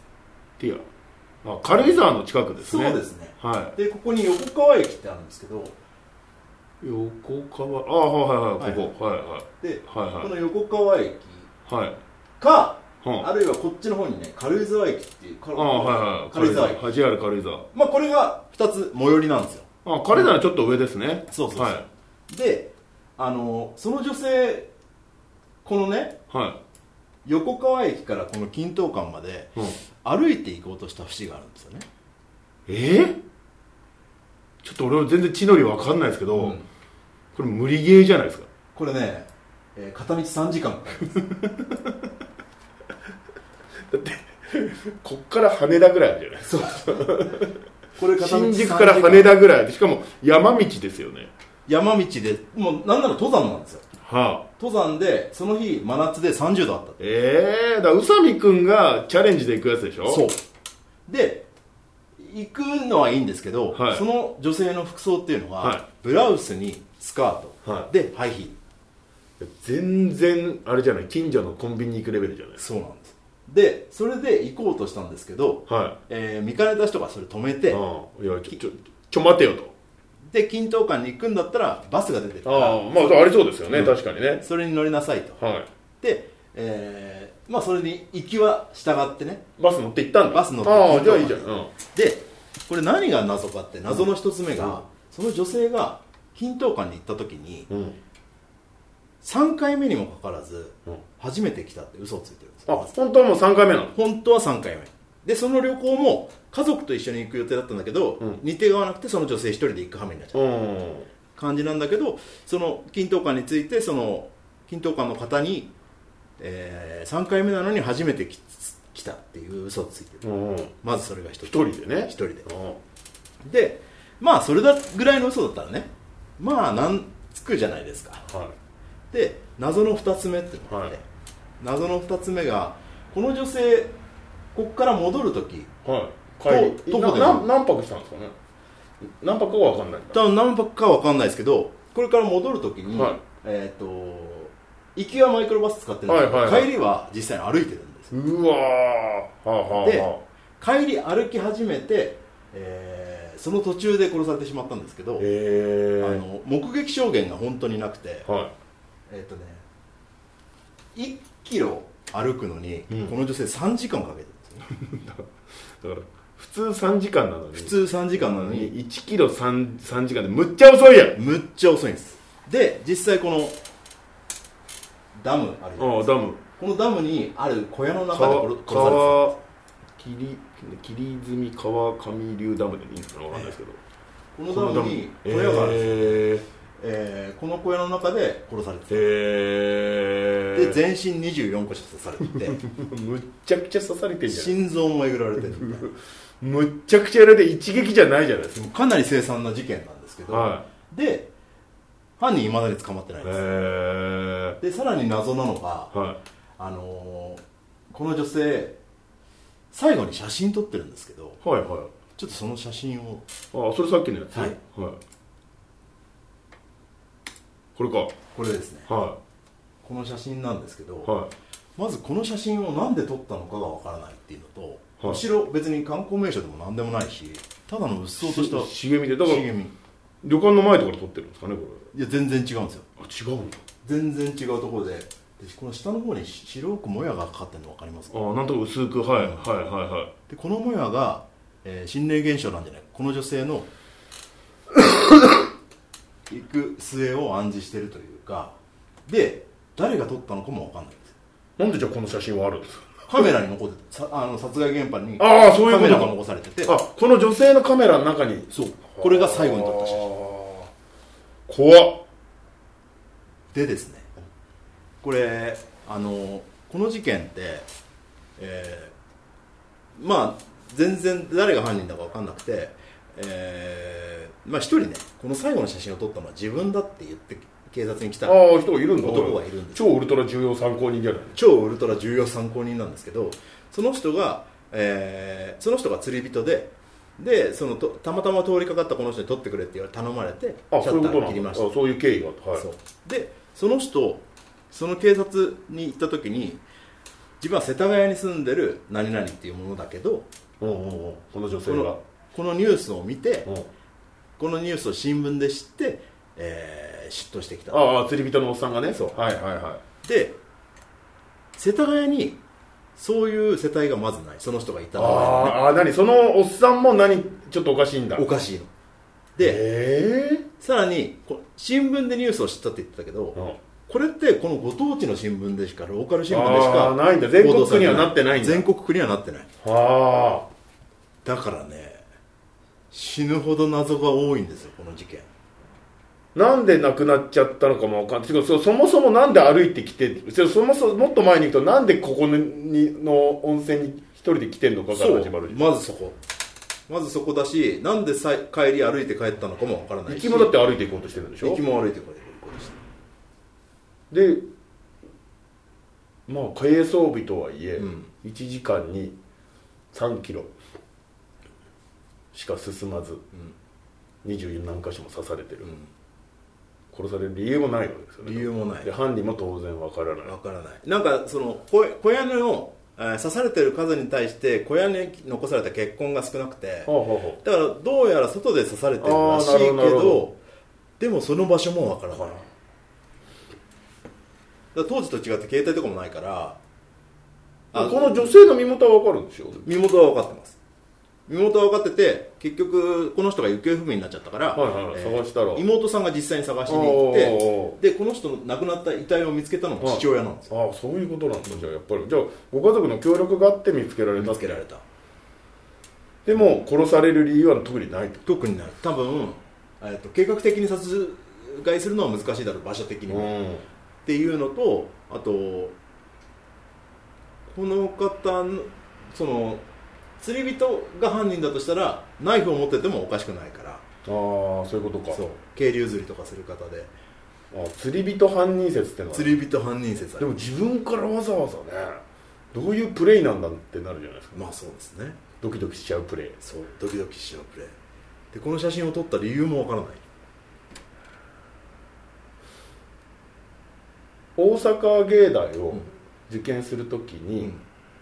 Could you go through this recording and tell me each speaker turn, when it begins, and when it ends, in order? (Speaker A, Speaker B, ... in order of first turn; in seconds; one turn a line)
Speaker A: 0.6-0.8
Speaker A: 1.4-3.8
Speaker B: 1.7-2.0
Speaker B: 2.6-5.8
Speaker A: 6.8-10.3
Speaker B: 8.6-8.9
Speaker B: 9.6-11.5
Speaker A: 11.7-12.0
Speaker B: 12.4-16.9
Speaker A: 13.0-13.3
Speaker A: 15.5-17.7
Speaker B: 17.7-20.3
Speaker A: 19.8-21.8
Speaker B: 21.3-24.7
Speaker B: 25.6-26.1
Speaker A: 26.3-26.6
Speaker B: 27.2-31.9
Speaker A: 32.7-33.2
Speaker A: 34.6-36.6
Speaker B: 36.3-36.6
Speaker A: 37.3-38.5
Speaker B: 38.7-41.5
Speaker A: 41.2-41.8
Speaker A: 43.9-47.5
Speaker B: 46.5-47.3
Speaker B: 48.0-49.3
Speaker A: 48.2-51.3
Speaker B: 51.6-53.8
Speaker A: 54.0-54.5
Speaker B: 54.6-57.0
Speaker A: 57.0-60.3
Speaker B: 60.1-60.4
Speaker B: 61.1-61.5
Speaker B: 62.2-68.5
Speaker A: 63.7-64.0
Speaker A: 65.6-65.8
Speaker A: 67.6-67.9
Speaker A: 69.4-72.6
Speaker B: 72.6-77.8
Speaker A: 75.7-76.0
Speaker A: 77.7-79.7
Speaker B: 80.3-85.4
Speaker A: 82.4-84.4
Speaker A: 85.4-85.7
Speaker B: 86.0-89.4
Speaker A: 89.6-91.7
Speaker B: 90.3-97.7
Speaker A: 97.7-98.0
Speaker B: 99.2-103.0
Speaker A: 102.7-103.9
Speaker B: 103.9-110.5
Speaker A: 110.3-111.1
Speaker B: 111.3-115.7
Speaker B: 116.4-120.2
Speaker A: 120.2-120.7
Speaker B: 120.8-122.5
Speaker A: 121.4-122.8
Speaker B: 123.4-128.2
Speaker A: 128.3-128.5
Speaker B: 129.1-131.0
Speaker A: 130.7-130.9
Speaker B: 131.6-133.9
Speaker B: 134.5-135.7
Speaker A: 135.8-138.3
Speaker B: 136.4-137.5
Speaker A: 139.0-140.2
Speaker B: 140.1-148.1
Speaker A: 142.9-143.2
Speaker A: 146.1-146.7
Speaker A: 148.1-150.2
Speaker B: 149.7-155.3
Speaker A: 155.2-156.2
Speaker B: 156.0-158.3
Speaker A: 158.2-158.5
Speaker B: 159.1-159.6
Speaker B: 160.9-164.7
Speaker A: 162.9-163.2
Speaker A: 164.7-165.2
Speaker A: 165.8-171.2
Speaker B: 167.5-168.7
Speaker B: 171.1-173.6
Speaker B: 175.2-179.4
Speaker A: 175.8-176.4
Speaker A: 178.1-179.3
Speaker A: 180.0-183.8
Speaker B: 183.3-183.6
Speaker B: 184.3-189.1
Speaker A: 184.5-186.4
Speaker A: 188.9-190.8
Speaker B: 190.5-192.6
Speaker A: 192.3-194.5
Speaker B: 194.3-195.9
Speaker A: 195.4-198.6
Speaker B: 198.5-201.3
Speaker A: 200.3-200.7
Speaker B: 202.2-203.4
Speaker A: 203.2-204.6
Speaker B: 204.6-205.9
Speaker A: 205.9-206.2
Speaker B: 206.6-208.8
Speaker B: 209.7-211.4
Speaker A: 211.4-211.9
Speaker B: 212.2-213.2
Speaker A: 213.5-215.0
Speaker B: 214.3-214.6
Speaker A: 217.8-218.1
Speaker B: 218.3-218.9
Speaker A: 218.9-219.2
Speaker B: 219.8-221.1
Speaker A: 221.0-221.3
Speaker B: 221.8-229.7
Speaker A: 228.2-229.5
Speaker A: 230.2-231.9
Speaker B: 231.9-232.9
Speaker A: 233.0-233.6
Speaker B: 233.8-238.2
Speaker A: 238.1-240.1
Speaker B: 239.2-239.6
Speaker B: 240.3-243.7
Speaker B: 246.3-251.2
Speaker A: 251.6-253.3
Speaker B: 253.1-256.7
Speaker A: 255.2-260.7
Speaker B: 258.5-260.1
Speaker A: 261.5-262.0
Speaker B: 263.5-264.1
Speaker B: 265.0-267.7
Speaker B: 268.4-268.9
Speaker B: 270.0-278.4
Speaker A: 278.2-281.4
Speaker B: 279.0-279.9
Speaker B: 281.3-291.7
Speaker A: 290.7-292.6
Speaker B: 292.5-296.6
Speaker B: 297.4-300.3
Speaker A: 300.6-302.0
Speaker B: 301.6-303.5
Speaker B: 304.4-307.8
Speaker A: 307.7-309.8
Speaker B: 310.0-310.4
Speaker B: 311.5-312.4
Speaker B: 312.9-315.6
Speaker A: 314.9-318.2
Speaker B: 318.1-318.7
Speaker B: 319.4-319.6
Speaker A: 319.4-320.5
Speaker B: 320.6-329.5
Speaker A: 326.3-328.6
Speaker A: 329.6-330.5
Speaker B: 331.2-332.0
Speaker B: 332.9-335.3
Speaker A: 336.3-345.6
Speaker B: 344.9-346.2
Speaker B: 346.9-350.6
Speaker A: 350.1-351.6
Speaker B: 351.4-352.8
Speaker A: 354.1-354.4
Speaker A: 356.3-359.1
Speaker B: 357.8-358.1
Speaker A: 359.9-360.5
Speaker A: 362.3-363.2
Speaker A: 364.2-365.7
Speaker B: 365.6-365.9
Speaker A: 366.9-370.3
Speaker B: 368.2-368.9
Speaker B: 370.2-380.4
Speaker A: 376.9-377.4
Speaker A: 379.0-380.2
Speaker B: 381.0-382.4
Speaker A: 382.1-382.4
Speaker B: 384.7-386.6
Speaker B: 387.7-388.3
Speaker A: 387.7-389.7
Speaker B: 389.6-390.6
Speaker B: 391.3-400.5
Speaker A: 394.5-395.6
Speaker A: 396.7-397.8
Speaker A: 399.8-404.6
Speaker B: 404.1-404.8
Speaker A: 406.2-408.2
Speaker B: 408.2-413.3
Speaker A: 413.1-413.6
Speaker B: 414.0-415.8
Speaker B: 417.5-419.6
Speaker B: 420.2-423.8
Speaker A: 424.1-425.2
Speaker B: 425.1-426.9
Speaker A: 427.5-429.4
Speaker B: 429.1-430.3
Speaker A: 430.2-432.0
Speaker A: 432.5-434.4
Speaker B: 434.3-435.2
Speaker A: 435.4-436.4
Speaker B: 436.4-437.8
Speaker B: 438.3-440.0
Speaker A: 444.4-447.5